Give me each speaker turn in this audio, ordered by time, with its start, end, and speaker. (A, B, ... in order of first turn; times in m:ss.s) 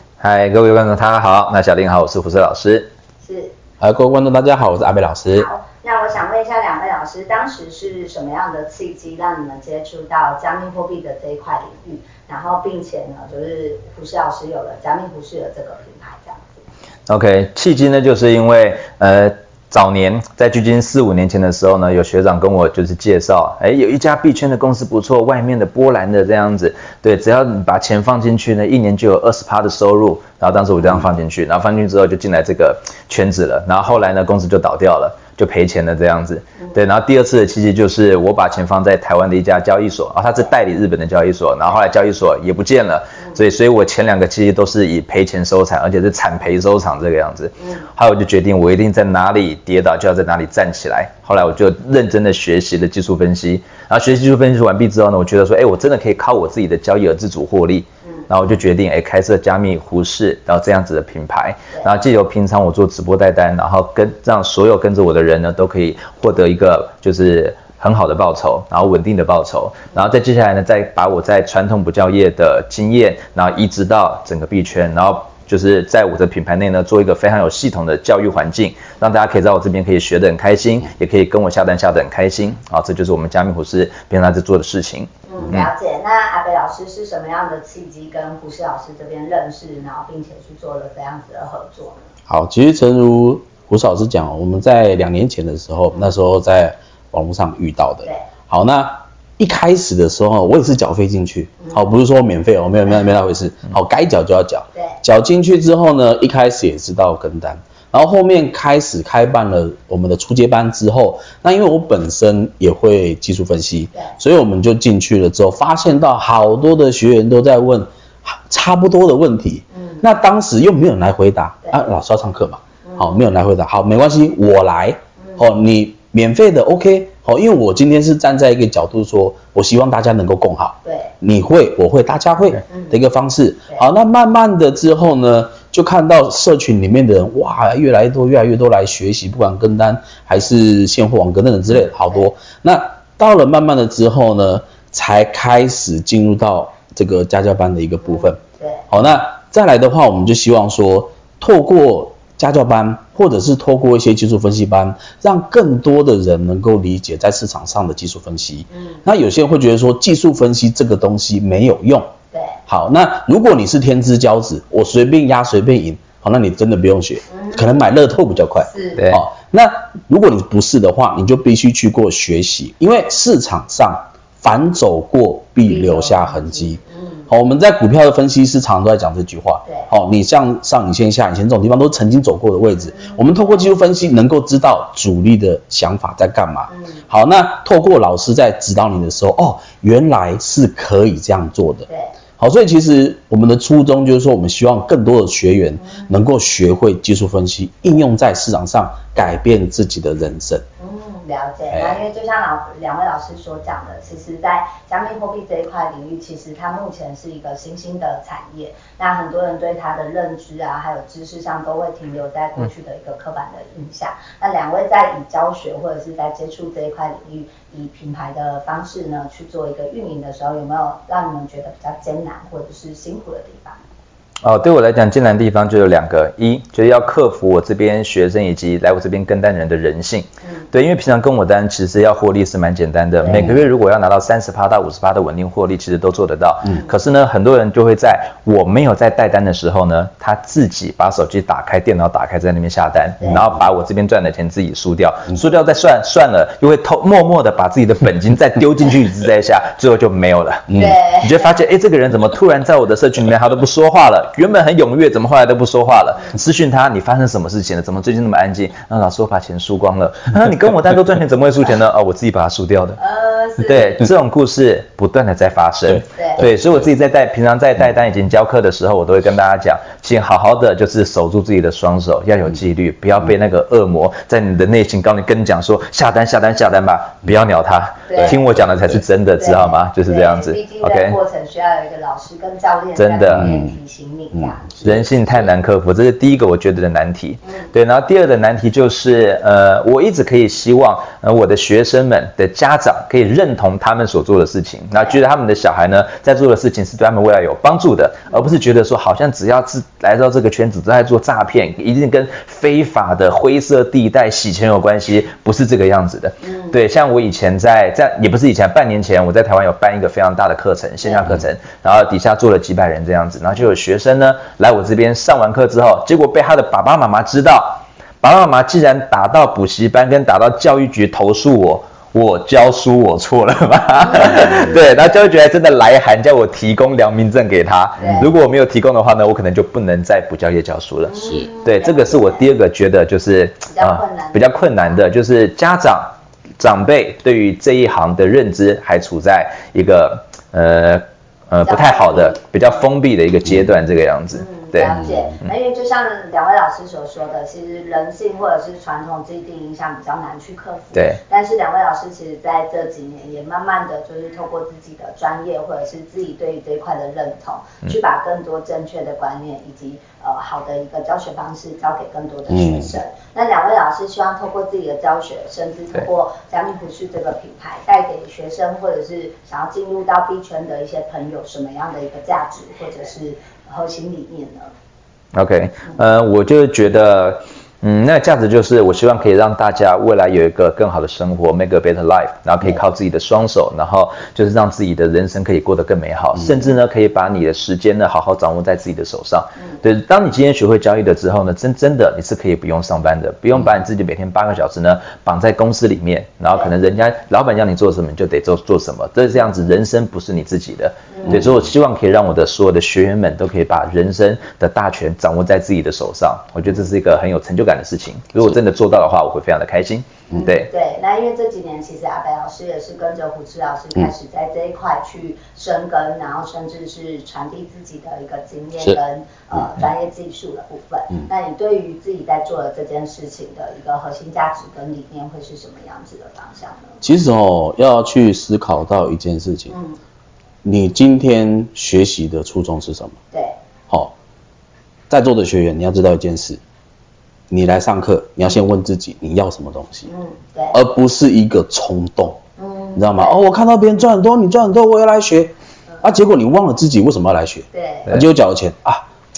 0:00.2-0:02.9 A
0:03.2-0:03.6 B
0:03.8-0:05.5 C
0:05.3-0:16.6 B
0:17.1-1:25.7 A
1:25.3-1:32.0 B
1:32.3-2:28.4 C
1:44.8-1:45.0 B
1:59.7-2:00.0 B
2:02.8-2:03.2 B
2:05.2-2:05.5 B
2:10.8-2:11.1 B
2:12.7-2:13.0 B
2:28.0-2:28.9 B
2:28.9-2:42.1 C
2:38.7-2:39.0 B
2:42.3-2:42.6 B
2:42.7-3:11.9 C
2:47.3-2:47.8 B
2:48.6-2:49.1 B
2:49.0-2:49.2 A
2:55.6-2:57.3 B
3:03.0-3:03.7 B
3:06.7-3:07.0 B
3:11.9-3:12.2 B
3:12.4-3:20.6 C
3:15.8-3:16.1 B
3:20.8-3:43.8 B
3:21.7-3:22.0 C
3:44.4-4:23.0 A
3:53.2-3:53.6 B
3:53.3-3:53.6 C
4:10.7-4:11.0 C
4:10.7-4:11.6 B
4:23.0-4:24.0 B
4:23.6-4:41.2 A
4:25.9-4:26.9 C
4:26.2-4:26.5 B
4:38.1-4:38.4 B
4:38.2-4:39.0 C
4:39.4-4:45.2 B
4:43.0-4:43.5 A
4:43.3-4:43.8 C
4:44.3-4:45.1 C
4:44.8-5:45.0 A
5:06.4-5:06.8 B
5:11.0-5:11.4 B
5:24.0-5:24.8 B
5:28.0-5:28.3 B
5:28.0-5:28.3 C
5:31.1-5:32.5 B
5:33.7-5:34.8 B
5:41.6-5:42.8 B
5:44.3-6:14.7 B
5:50.9-5:51.2 A
6:02.5-6:03.0 C
6:15.3-6:50.7 A
6:41.1-6:41.5 B
6:41.2-6:41.6 C
6:50.4-7:07.0 B
7:07.0-7:09.7 C
7:09.7-7:10.0 B
7:10.6-7:13.2 C
7:13.3-7:13.6 B
7:15.1-7:16.6 C
7:17.5-7:20.1 C
7:20.1-7:20.8 B
7:20.7-7:22.4 C
7:22.6-7:23.4 B
7:23.0-7:29.0 C
7:27.7-7:28.2 B